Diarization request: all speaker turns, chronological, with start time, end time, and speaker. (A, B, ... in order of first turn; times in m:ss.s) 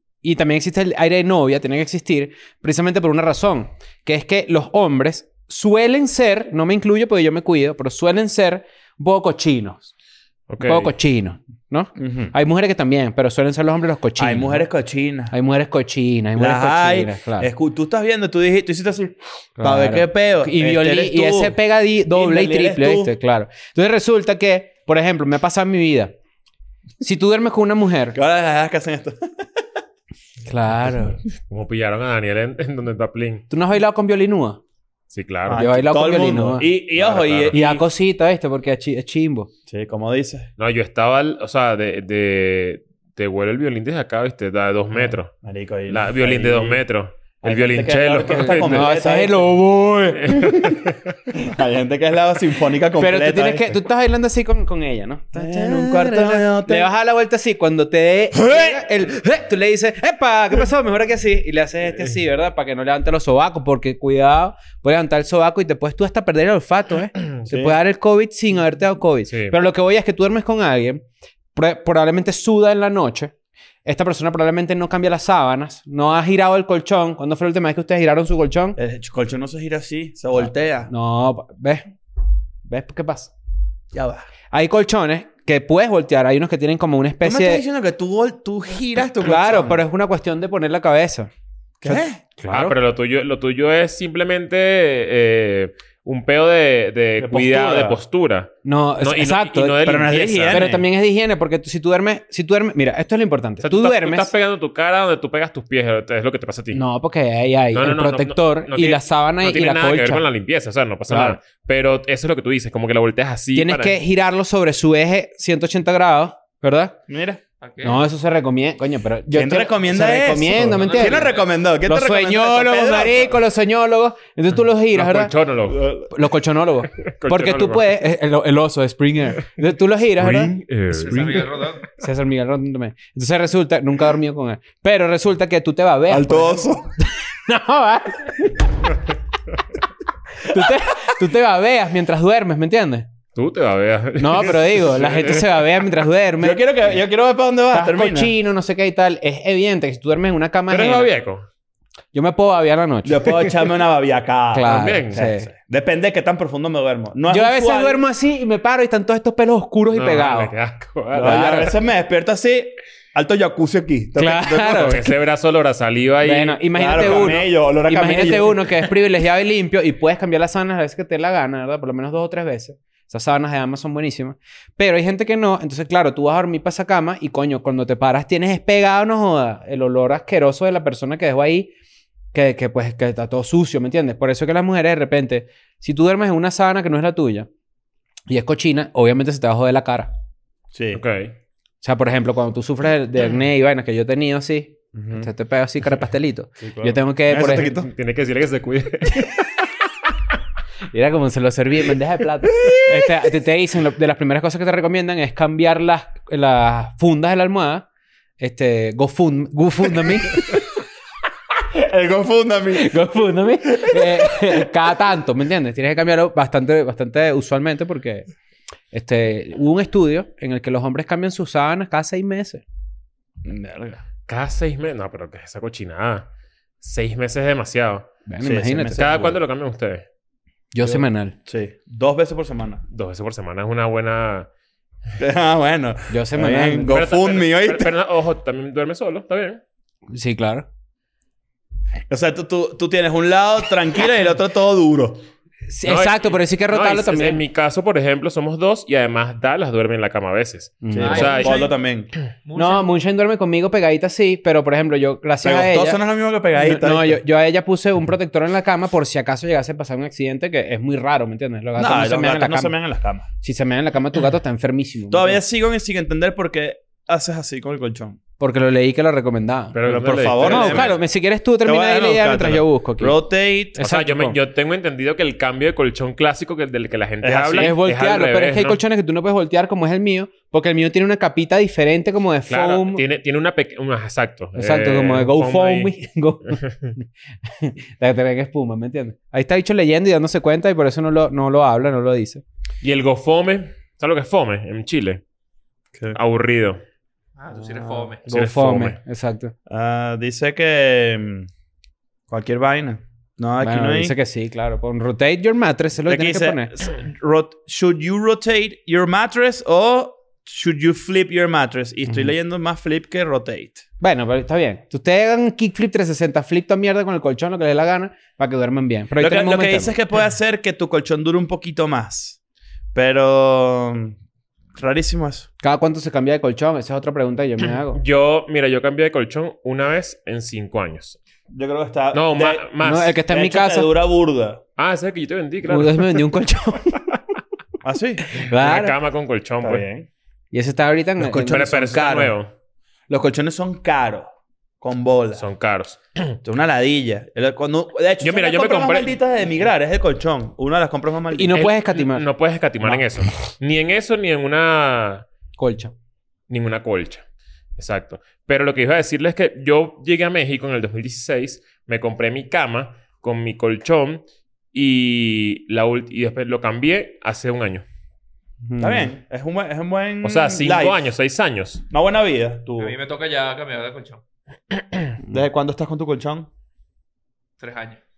0:00.2-0:09.9 A
0:10.5-0:10.9 B
0:10.6-0:14.6 A
0:12.0-0:12.3 C
0:14.2-0:15.3 C
0:15.3-0:17.5 A
0:16.4-0:21.5 C
0:19.6-0:26.1 A
0:22.1-0:23.1 C
0:27.0-0:28.2 A
0:28.1-0:29.3 C
0:30.4-0:31.2 A
0:31.5-0:33.4 B
0:33.5-0:34.6 A
0:35.1-0:35.7 B
0:35.5-0:37.8 C
0:35.5-0:36.7 A
0:36.9-0:37.8 B
0:37.5-0:39.5 A
0:39.7-0:40.5 C
0:40.6-0:45.3 B
0:45.3-0:46.8 C
0:45.9-0:49.0 B
0:47.4-0:49.4 C
0:48.4-0:50.7 A
0:50.3-0:50.9 B
0:51.3-0:53.7 C
0:53.0-1:11.0 A
0:55.3-0:56.9 C
0:58.4-0:58.8 C
1:07.5-1:07.8 C
1:09.3-1:09.6 B
1:11.5-1:13.3 A
1:13.8-1:18.8 A
1:18.8-1:20.9 C
1:20.4-1:21.9 A
1:22.6-1:23.3 A
1:23.9-1:24.3 C
1:24.5-1:27.6 A
1:27.2-1:29.8 C
1:29.2-1:31.3 A
1:31.8-1:32.3 C
1:31.8-1:32.8 A
1:32.5-1:40.7 B
1:37.2-1:38.0 A
1:37.4-1:37.8 C
1:38.6-1:44.3 A
1:39.8-1:40.8 C
1:43.6-1:46.8 B
1:46.7-1:50.2 A
1:47.7-1:54.0 B
1:51.1-1:51.4 A
1:53.5-1:57.0 A
1:57.1-1:57.4 C
1:57.6-1:58.0 D
1:57.8-2:05.3 A
1:59.3-2:03.4 C
2:00.7-2:01.5 D
2:04.9-2:05.8 B
2:05.7-2:06.1 C
2:06.1-2:18.7 A
2:07.0-2:07.9 B
2:10.2-2:11.4 B
2:10.9-2:11.9 D
2:16.1-2:16.9 C
2:20.4-2:23.1 A
2:23.3-2:25.7 B
2:24.2-2:26.6 A
2:26.4-2:28.3 C
2:27.7-2:31.1 A
2:30.7-2:31.4 B
2:32.1-2:33.6 A
2:33.0-2:38.0 C
2:34.5-2:35.5 A
2:34.6-2:35.3 B
2:37.3-2:40.5 A
2:39.9-2:41.7 B
2:41.1-2:45.0 C
2:41.2-2:41.7 A
2:44.2-2:45.1 A
2:44.7-2:47.4 B
2:46.2-3:01.7 A
2:46.7-2:48.6 C
3:02.3-3:07.5 A
3:08.3-3:10.1 A
3:10.7-3:11.0 C
3:10.9-3:11.3 B
3:11.8-3:17.9 A
3:14.9-3:15.3 C
3:16.6-3:17.9 C
3:17.9-3:19.3 B
3:20.9-3:27.8 A
3:22.6-3:22.9 C
3:28.4-3:30.7 A
3:31.7-3:33.0 C
3:32.7-3:38.2 A
3:33.7-3:34.6 C
3:38.9-3:42.6 A
3:43.4-3:44.0 C
3:44.3-3:46.3 B
3:46.8-3:48.1 B
3:48.2-3:49.1 A
3:48.4-3:49.4 C
3:49.0-3:50.0 B
3:50.7-3:51.4 A
3:50.8-3:52.8 C
3:52.9-3:54.5 B
3:55.2-3:57.9 C
3:56.1-3:57.0 A
3:56.9-3:59.6 B
4:00.1-4:00.6 A
4:02.1-4:05.2 C
4:05.7-4:07.4 A
4:05.8-4:11.6 B
4:10.8-4:11.3 A
4:10.9-4:12.1 C
4:11.0-4:11.8 D
4:12.4-4:12.9 D
4:12.6-4:16.0 A
4:15.4-4:17.2 C
4:16.5-4:22.7 A
4:21.8-4:23.3 C
4:23.4-4:25.4 A
4:25.1-4:28.2 C
4:28.4-4:29.8 A
4:29.7-4:31.0 B
4:29.8-4:31.0 C
4:30.3-4:33.2 A
4:31.6-4:33.8 C
4:33.8-4:34.4 A
4:33.8-4:38.8 B
4:37.2-4:37.8 C
4:37.6-4:43.0 A
4:42.5-4:45.9 B
4:44.6-4:52.4 A
4:46.6-4:46.9 B
4:52.8-4:55.2 B
4:56.1-4:56.8 B
4:57.4-4:58.2 D
4:58.2-4:59.5 A
4:58.3-4:59.0 B
4:59.7-5:01.5 C
5:02.3-5:04.1 C
5:03.6-5:06.7 A
5:06.1-5:13.8 C
5:12.1-5:12.3 A
5:14.0-5:20.0 A
5:19.2-5:22.4 C
5:22.9-5:24.2 C
5:24.8-5:25.5 C
5:25.6-5:28.0 A
5:27.9-5:31.2 B
5:31.5-5:32.7 C
5:32.1-5:33.2 B
5:32.8-5:33.9 A
5:33.3-5:34.6 C
5:34.8-5:36.3 B
5:35.6-5:37.0 A
5:37.8-5:38.4 C
5:38.3-5:38.9 A
5:38.4-5:39.8 B
5:39.6-5:40.1 C
5:40.5-5:41.7 A
5:41.2-5:42.3 C
5:41.4-5:42.5 B
5:43.1-5:45.4 C
5:45.3-5:46.4 B
5:46.4-5:51.6 C
5:48.2-5:49.2 B
5:51.3-5:52.2 A
5:51.5-5:55.3 B
5:55.6-5:55.9 A
5:56.5-5:57.2 B
5:57.8-6:07.8 B
6:08.6-6:09.1 A
6:08.8-6:11.0 C
6:10.2-6:11.8 B
6:11.9-6:12.9 C
6:12.8-6:14.2 D
6:15.3-6:16.5 C
6:17.6-6:18.0 D